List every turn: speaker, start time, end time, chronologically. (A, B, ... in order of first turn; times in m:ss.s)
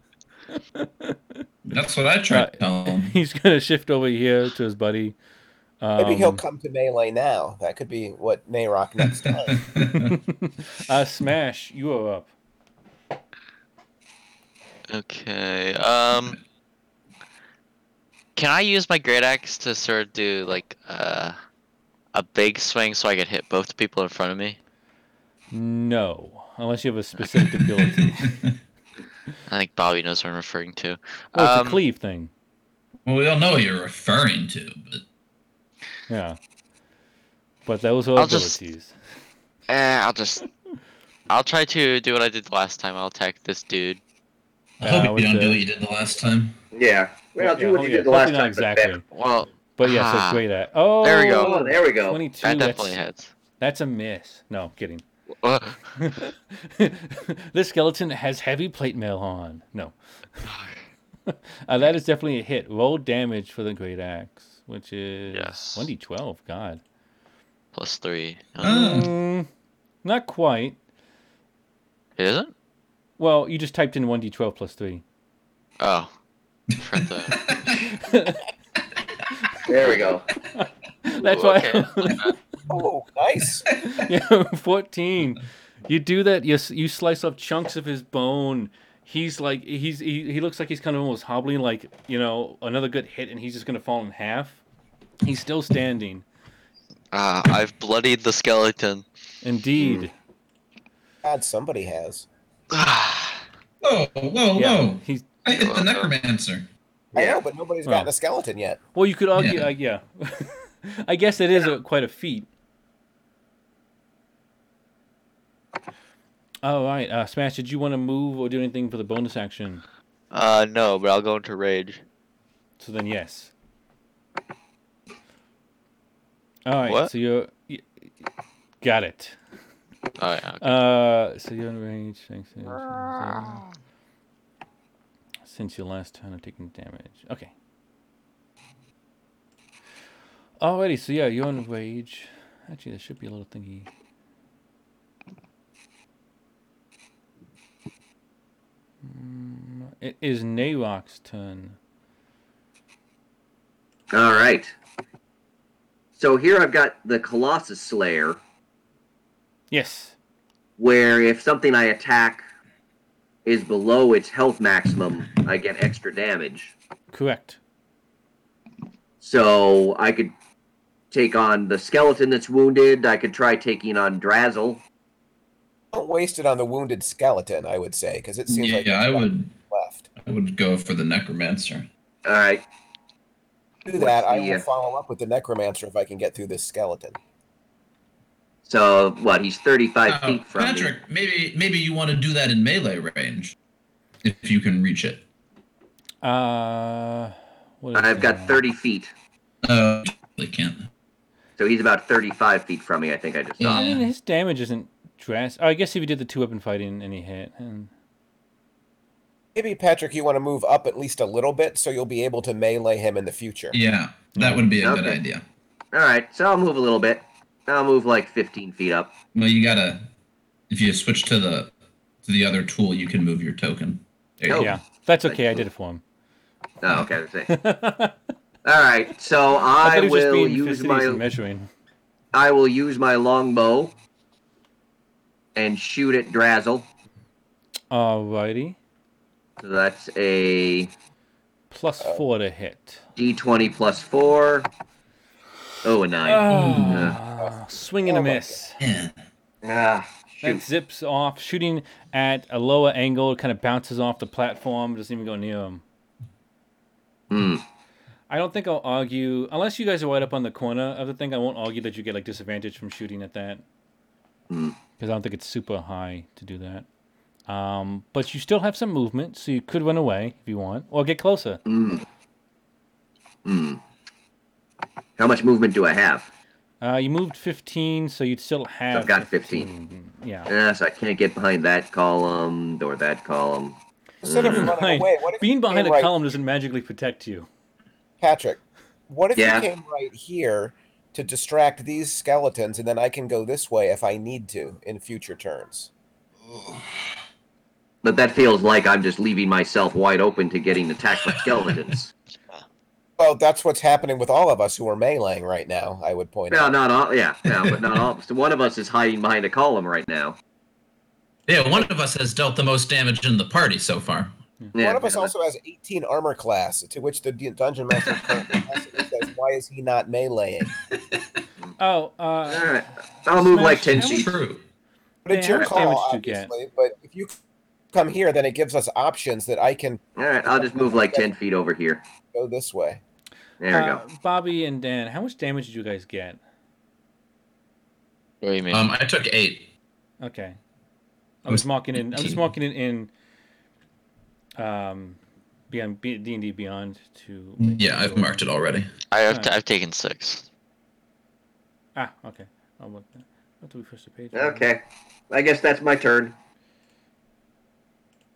0:00.6-0:01.4 A
0:01.6-0:03.2 B
0:02.3-0:05.2 A
0:05.8-0:06.4 A
0:06.0-0:09.6 C
0:09.4-0:10.2 B
0:09.9-0:12.3 A
0:14.9-0:16.4 D
0:18.4-0:21.4 D
0:22.1-0:24.6 D
0:25.5-0:28.4 A
0:27.6-0:28.5 B
0:29.5-0:31.8 D
0:31.4-0:32.3 A
0:33.0-0:35.0 B
0:36.1-0:36.4 A
0:37.7-0:39.0 A
0:38.2-0:38.6 D
0:39.7-0:40.5 D
0:41.3-0:44.0 D
0:44.8-0:46.6 B
0:44.8-0:45.6 A
0:46.7-0:49.0 E
0:47.4-0:49.0 A
0:49.1-0:50.4 D
0:49.8-0:53.0 A
0:51.0-0:51.7 D
0:51.4-0:52.2 E
0:52.4-0:53.3 D
0:53.6-0:55.0 A
0:55.4-0:55.8 D
0:56.0-1:00.5 A
1:00.4-1:00.9 D
1:01.3-1:06.8 A
1:05.3-1:05.9 D
1:07.8-1:08.9 D
1:08.6-1:09.1 B
1:08.6-1:09.5 A
1:10.0-1:10.8 A
1:12.2-1:12.5 D
1:13.2-1:15.0 A
1:15.8-1:16.1 D
1:16.7-1:17.9 B
1:16.8-1:17.4 D
1:17.8-1:18.4 A
1:19.7-1:20.3 E
1:19.8-1:20.1 D
1:20.4-1:22.3 A
1:21.2-1:22.4 D
1:22.7-1:23.7 C
1:23.8-1:34.6 A
1:35.2-1:36.2 A
1:37.1-1:39.0 D
1:39.4-1:40.1 A
1:41.2-1:42.3 C
1:42.7-1:43.4 D
1:43.8-1:46.7 B
1:44.6-1:45.3 A
1:45.5-1:46.1 D
1:47.1-1:48.8 C
1:47.2-1:47.4 E
1:47.8-1:48.1 A
1:49.0-1:52.5 A
1:49.4-1:49.7 B
1:56.6-1:59.8 A
2:00.3-2:02.0 D
2:02.8-2:03.5 A
2:06.7-2:07.9 A
2:08.8-2:09.4 A
2:10.2-2:10.8 D
2:10.6-2:13.6 A
2:12.9-2:13.7 D
2:15.4-2:17.5 A
2:20.6-2:23.9 A
2:29.0-2:31.8 A
2:34.1-2:34.8 E
2:36.2-2:38.4 E
2:39.7-2:40.2 A
2:40.8-2:42.5 E
2:43.4-2:46.8 E
2:47.1-2:47.6 A
2:49.2-2:50.3 E
2:51.1-2:54.8 E
2:55.9-3:00.1 C
2:58.5-2:59.5 B
3:00.2-3:01.9 B
3:02.2-3:02.6 E
3:03.8-3:07.2 C
3:04.0-3:04.6 E
3:08.6-3:11.0 E
3:10.1-3:13.6 B
3:14.2-3:15.2 B
3:16.2-3:18.6 A
3:17.9-3:19.1 E
3:19.6-3:20.9 B
3:21.6-3:23.9 E
3:23.6-3:24.1 B
3:23.7-3:27.9 A
3:29.6-3:33.8 C
3:33.7-3:35.4 B
3:34.3-3:34.7 A
3:34.8-3:35.2 E
3:35.9-3:39.2 E
3:39.3-3:40.1 B
3:40.7-3:44.7 B
3:44.5-3:44.7 E
3:44.5-3:46.0 A
3:45.2-3:45.7 E
3:46.8-3:47.5 E
3:47.5-3:48.2 A
3:48.6-3:51.2 E
3:49.8-3:51.7 A
3:52.3-3:54.0 E
3:55.6-3:56.9 E
3:57.9-3:58.8 A
3:59.6-4:00.9 E
4:01.7-4:03.0 A
4:03.2-4:04.7 E
4:05.8-4:07.2 E
4:06.2-4:08.8 A
4:06.5-4:07.2 B
4:07.4-4:08.6 C
4:08.8-4:09.1 B
4:09.6-4:10.6 E
4:10.4-4:15.8 A
4:17.3-4:17.6 E
4:18.3-4:23.6 A
4:24.5-4:24.8 E
4:25.0-4:26.9 A
4:27.5-4:31.6 A
4:31.7-4:32.0 E
4:33.4-4:33.8 E
4:35.2-4:36.3 E
4:36.8-4:40.5 A
4:38.9-4:39.7 E
4:40.5-4:44.7 E
4:44.2-4:46.2 C
4:44.4-4:47.5 A
4:48.2-4:55.9 C
4:49.4-4:49.7 E
4:58.0-5:02.1 E
5:03.2-5:06.8 C
5:06.5-5:10.4 E
5:11.5-5:14.3 B
5:14.7-5:15.3 E
5:14.8-5:20.7 C
5:21.8-5:24.3 A
5:22.5-5:24.3 E
5:23.6-5:24.6 B
5:25.2-5:27.4 C
5:25.3-5:26.5 A
5:27.9-5:31.3 C
5:30.2-5:32.0 E
5:32.3-5:33.0 C
5:33.6-5:34.0 E
5:33.7-5:36.4 A
5:38.4-5:38.8 D
5:38.7-5:39.7 B
5:40.2-5:40.6 A
5:41.4-5:43.1 A
5:41.5-5:42.5 B
5:44.6-5:45.2 A
5:45.7-5:48.5 A
5:47.6-5:48.9 B
5:49.1-5:50.5 D
5:49.3-5:49.5 A
5:52.0-5:54.7 A
5:54.3-5:56.4 E